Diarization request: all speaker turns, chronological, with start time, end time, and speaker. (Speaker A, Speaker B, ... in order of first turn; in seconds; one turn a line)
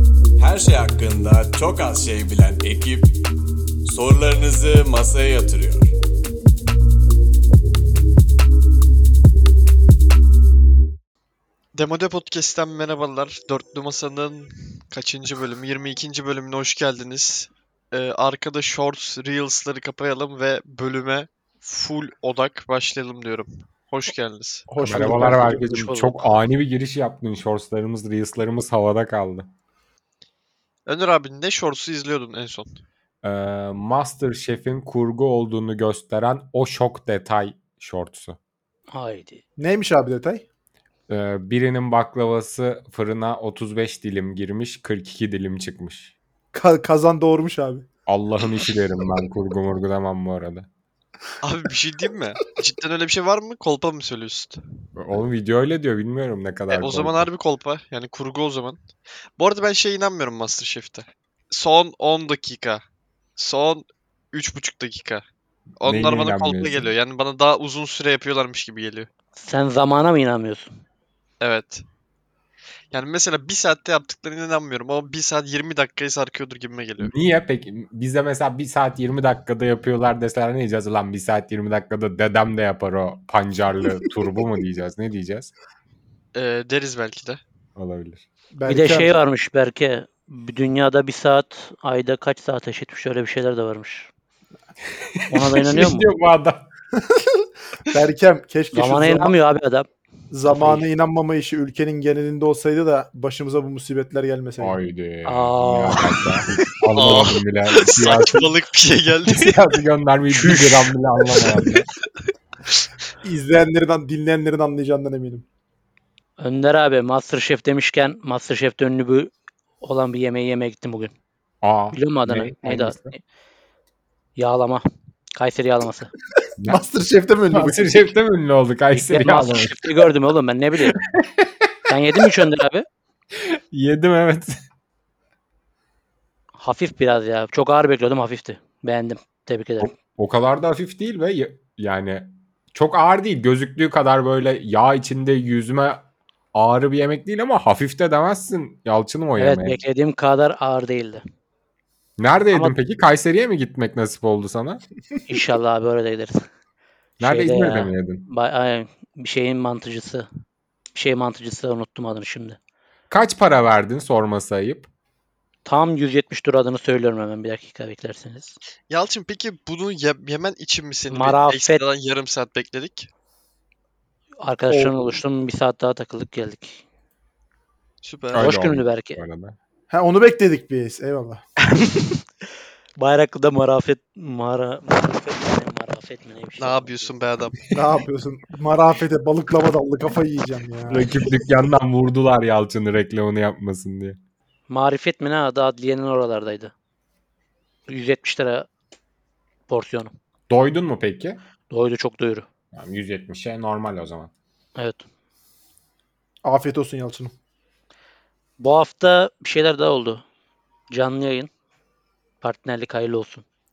Speaker A: 0.4-3.2
Speaker A: 3.9-5.9
Speaker B: 11.8-24.7
Speaker C: 24.7-25.7
Speaker D: 24.8-29.5
Speaker E: 24.9-26.3
Speaker B: 30.9-32.8
Speaker D: 33.2-38.4
Speaker E: 38.9-39.4
Speaker C: 39.6-40.4
Speaker D: 41.1-46.1
Speaker C: 46.5-47.9
Speaker D: 48.1-50.7
Speaker B: 51.4-54.6
Speaker D: 55.0-57.3
Speaker B: 56.7-58.8
Speaker B: 59.4-62.8
Speaker B: 63.4-65.2
Speaker B: 65.8-69.1
Speaker D: 65.8-66.9
Speaker E: 69.4-70.7
Speaker B: 71.4-71.8
Speaker B: 72.9-77.1
Speaker D: 77.0-85.5
Speaker B: 86.3-87.4
Speaker D: 87.8-88.3
Speaker C: 88.5-89.1
Speaker E: 88.7-94.1
Speaker D: 95.0-96.7
Speaker E: 95.3-96.1
Speaker C: 97.2-99.3
Speaker E: 98.7-99.9
Speaker C: 100.3-104.8
Speaker E: 100.5-100.9
Speaker D: 104.6-108.5
Speaker E: 105.3-106.4
Speaker B: 106.9-109.6
Speaker D: 109.2-111.9
Speaker C: 113.2-115.5
Speaker E: 116.4-121.1
Speaker D: 121.6-123.2
Speaker E: 121.9-123.2
Speaker E: 124.4-124.8
Speaker E: 125.3-126.1
Speaker D: 126.6-126.8
Speaker C: 126.7-128.1
Speaker D: 127.5-130.1
Speaker E: 128.9-131.0
Speaker D: 130.9-131.7
Speaker E: 131.9-132.9
Speaker D: 133.3-134.6
Speaker E: 136.6-139.9
Speaker D: 139.8-149.8
Speaker E: 149.4-151.2
Speaker D: 152.2-154.8
Speaker E: 152.5-152.8
Speaker E: 155.3-156.4
Speaker D: 157.2-158.3
Speaker E: 157.2-160.3
Speaker E: 160.9-162.6
Speaker D: 163.1-164.9
Speaker E: 165.7-168.6
Speaker B: 168.9-173.1
Speaker E: 171.1-171.8
Speaker E: 174.4-176.8
Speaker C: 174.7-175.0
Speaker B: 178.0-178.5
Speaker D: 178.3-179.6
Speaker E: 178.4-179.2
Speaker C: 179.9-181.4
Speaker E: 181.7-182.2
Speaker E: 183.0-187.1
Speaker B: 186.6-187.6
Speaker C: 187.7-191.1
Speaker D: 190.9-194.2
Speaker E: 194.7-196.7
Speaker E: 197.9-198.7
Speaker E: 199.7-200.1
Speaker D: 200.5-201.4
Speaker E: 201.7-202.5
Speaker D: 202.7-204.3
Speaker E: 204.8-205.0
Speaker C: 206.4-207.3
Speaker E: 208.6-210.2
Speaker E: 210.9-211.5
Speaker E: 212.4-213.4